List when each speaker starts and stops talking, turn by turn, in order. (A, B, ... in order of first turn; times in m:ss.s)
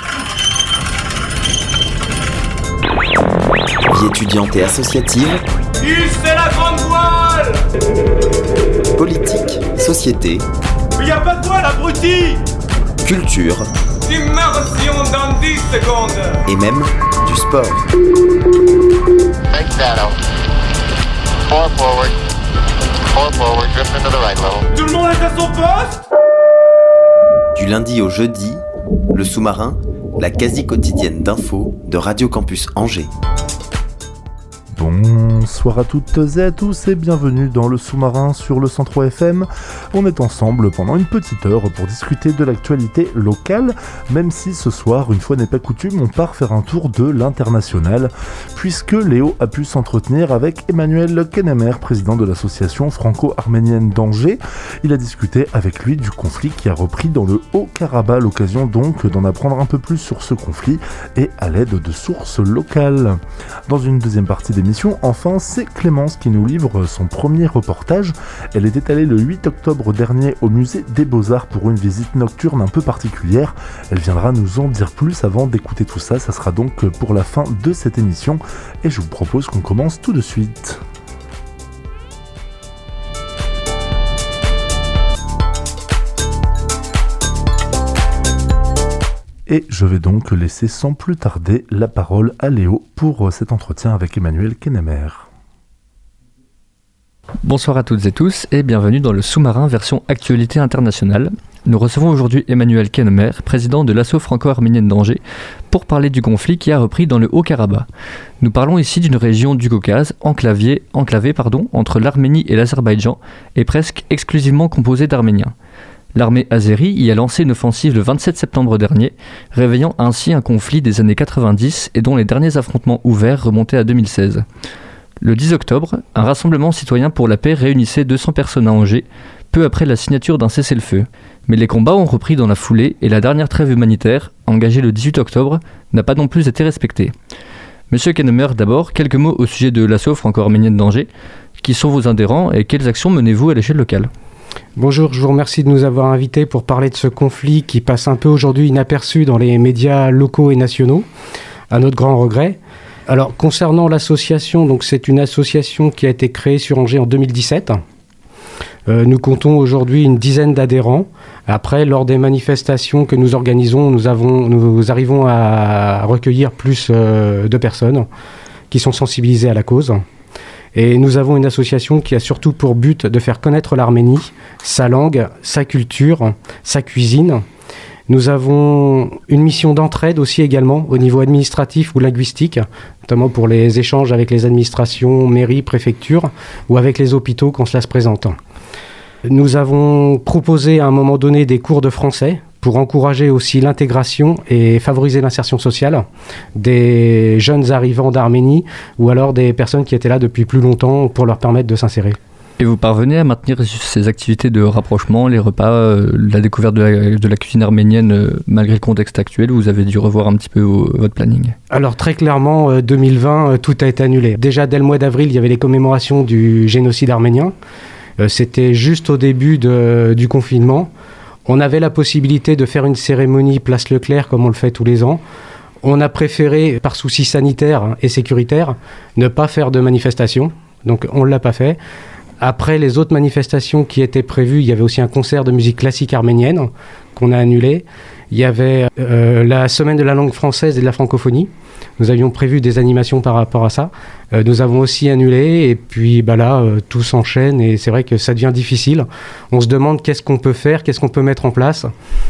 0:03.8-0:05.4 A
0:05.8-0:07.6 B
0:09.0-0:10.4 A
0:11.0-0:12.4 B
0:13.0-0:13.7 A
0:14.0-0:16.4 B
0:16.4-0:17.8 A
0:19.5-0:20.2 C
0:21.5-0:22.1 C
0:23.1-0:24.7 C
0:24.7-0:26.0 B
0:27.5-0:33.1 A
0:34.7-1:20.8 D
1:29.5-1:35.3 D
1:37.4-1:47.9 E
1:48.4-1:55.5 E
1:56.1-2:04.4 E
2:05.2-2:17.1 E
2:17.9-2:21.1 E
2:21.6-2:24.1 E
2:24.8-2:31.0 F
2:31.7-2:37.8 F
2:38.9-2:48.1 F
2:48.7-2:50.0 F
2:50.7-2:57.4 F
2:58.1-3:08.4 F
3:09.2-3:16.0 F
3:16.6-3:22.2 F
3:22.6-3:31.6 E
3:31.7-3:37.5 F
3:38.2-3:40.9 F
3:41.4-3:45.2 F
3:45.8-3:51.8 F
3:52.4-4:11.9 F